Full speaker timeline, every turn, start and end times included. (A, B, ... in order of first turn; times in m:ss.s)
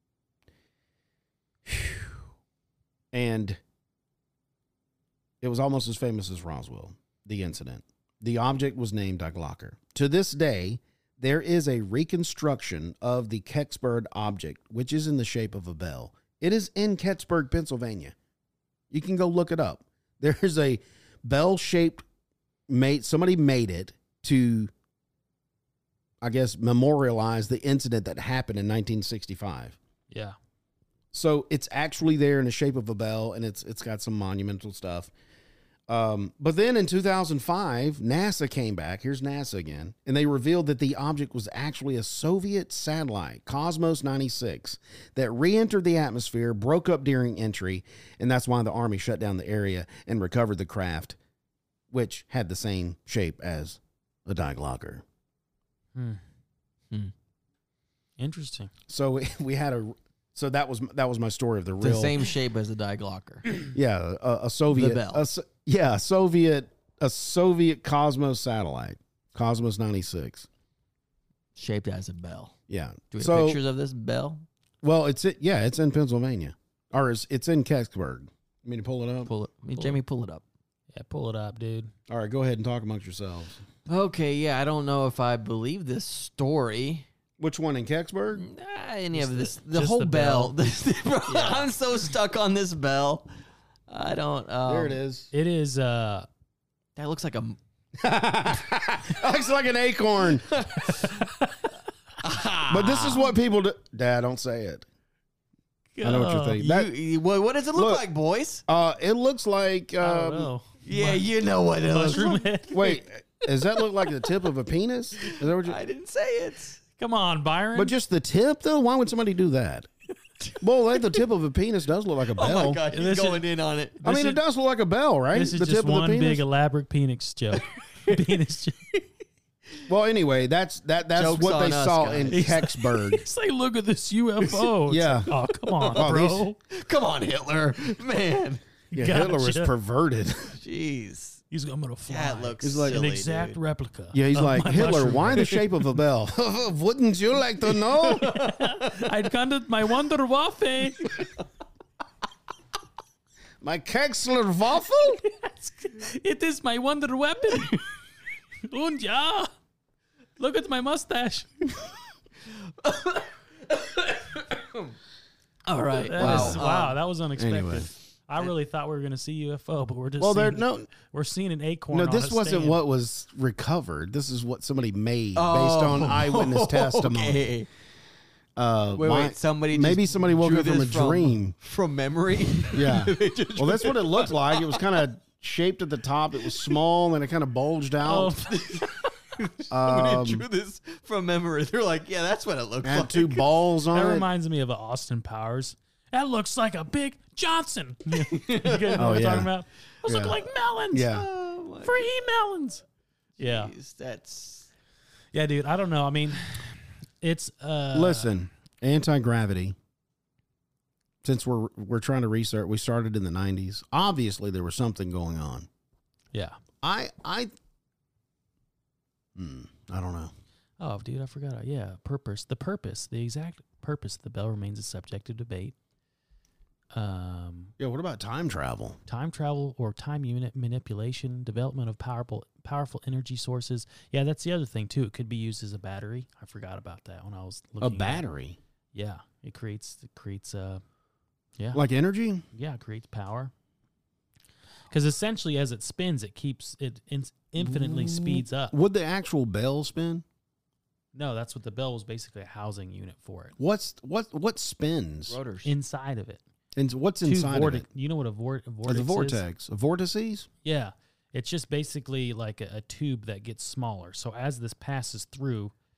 0:01.6-0:02.2 A
0:03.1-0:03.6 A
0:05.4-0:18.1 A
0:18.9-0:22.0 A
0:22.7-0:24.7 A
0:26.2-0:29.8 A
0:30.1-0:30.4 B
0:31.1-0:35.1 A
0:35.9-0:51.2 A
0:51.9-0:55.0 A
0:55.9-0:56.2 B
0:58.2-0:58.7 B
0:58.9-1:02.2 A
1:01.8-1:03.7 C
1:03.7-1:10.5 A
1:04.7-1:05.2 C
1:11.6-1:12.6 C
1:12.7-1:13.6 A
1:13.1-1:14.4 C
1:14.8-1:19.3 A
1:19.2-1:20.4 C
1:20.9-1:21.9 B
1:22.1-1:23.6 A
1:23.8-1:27.1 C
1:27.4-1:28.4 A
1:28.3-1:33.3 C
1:29.1-1:30.5 B
1:31.3-1:31.7 B
1:33.9-1:35.0 C
1:34.6-1:35.3 A
1:35.3-1:36.3 B
1:37.0-1:37.6 C
1:38.0-1:40.5 A
1:40.3-1:41.3 C
1:41.0-1:41.7 B
1:42.2-1:43.3 C
1:42.7-1:44.8 A
1:46.0-1:46.6 B
1:46.0-1:46.9 A
1:46.6-1:48.6 C
1:47.7-1:48.0 A
1:48.7-1:50.5 A
1:50.0-1:51.3 B
1:50.8-1:52.4 C
1:51.9-1:55.8 A
1:51.9-1:53.0 B
1:55.2-1:56.8 C
1:57.0-1:57.9 B
1:57.7-1:59.9 A
2:00.4-2:01.2 C
2:00.6-2:02.8 A
2:02.3-2:04.1 C
2:02.9-2:03.4 B
2:04.0-2:06.4 A
2:04.0-2:04.4 B
2:05.3-2:08.8 B
2:07.9-2:08.2 C
2:09.8-2:13.2 A
2:11.1-2:12.4 C
2:12.3-2:16.6 B
2:14.9-2:15.3 A
2:15.8-2:16.0 C
2:15.9-2:16.4 A
2:16.7-2:18.6 C
2:18.9-2:19.7 B
2:18.9-2:20.6 A
2:20.6-2:21.4 C
2:21.5-2:25.6 B
2:22.1-2:23.6 C
2:22.6-2:23.0 A
2:24.1-2:28.4 A
2:27.8-2:29.1 C
2:28.1-2:31.3 B
2:33.6-2:35.2 A
2:35.2-2:37.8 B
2:38.6-2:39.5 B
2:40.4-2:41.8 B
2:42.8-2:44.9 C
2:45.6-2:47.0 C
2:45.9-2:52.8 B
2:46.2-2:46.6 A
2:47.4-2:47.9 A
2:50.2-2:50.9 A
2:51.9-2:57.5 A
2:55.3-2:57.7 C
2:58.6-3:01.6 A
2:58.9-3:05.0 C
3:02.7-3:08.3 A
3:06.4-3:06.8 C
3:08.0-3:08.9 B
3:08.4-3:13.6 C
3:09.7-3:10.4 A
3:12.8-3:14.3 A
3:13.9-3:21.2 B
3:18.2-3:19.2 C
3:18.9-3:19.5 A
3:20.0-3:20.4 A
3:20.9-3:21.3 A
3:21.0-3:22.1 C
3:21.8-3:22.8 B
3:23.4-3:23.7 B
3:23.4-3:24.7 C
3:25.3-3:26.6 B
3:27.2-3:28.4 B
3:27.9-3:29.8 A
3:31.2-3:35.7 A
3:36.3-3:36.6 B
3:36.8-3:37.5 A
3:39.3-3:40.3 A
3:40.8-3:45.7 B
3:46.9-3:47.7 B
3:47.8-3:49.0 A
3:49.1-3:58.2 B
3:57.8-3:58.6 A
3:58.9-4:00.8 B
4:01.6-4:01.8 B
4:01.7-4:02.4 A
4:02.5-4:03.5 B
4:04.9-4:08.8 B
4:07.6-4:10.2 A
4:11.1-4:13.6 B
4:13.6-4:15.4 A
4:15.3-4:15.7 C
4:15.6-4:16.4 B
4:16.8-4:17.9 A
4:17.2-4:19.4 B
4:18.9-4:20.5 A
4:20.6-4:25.7 B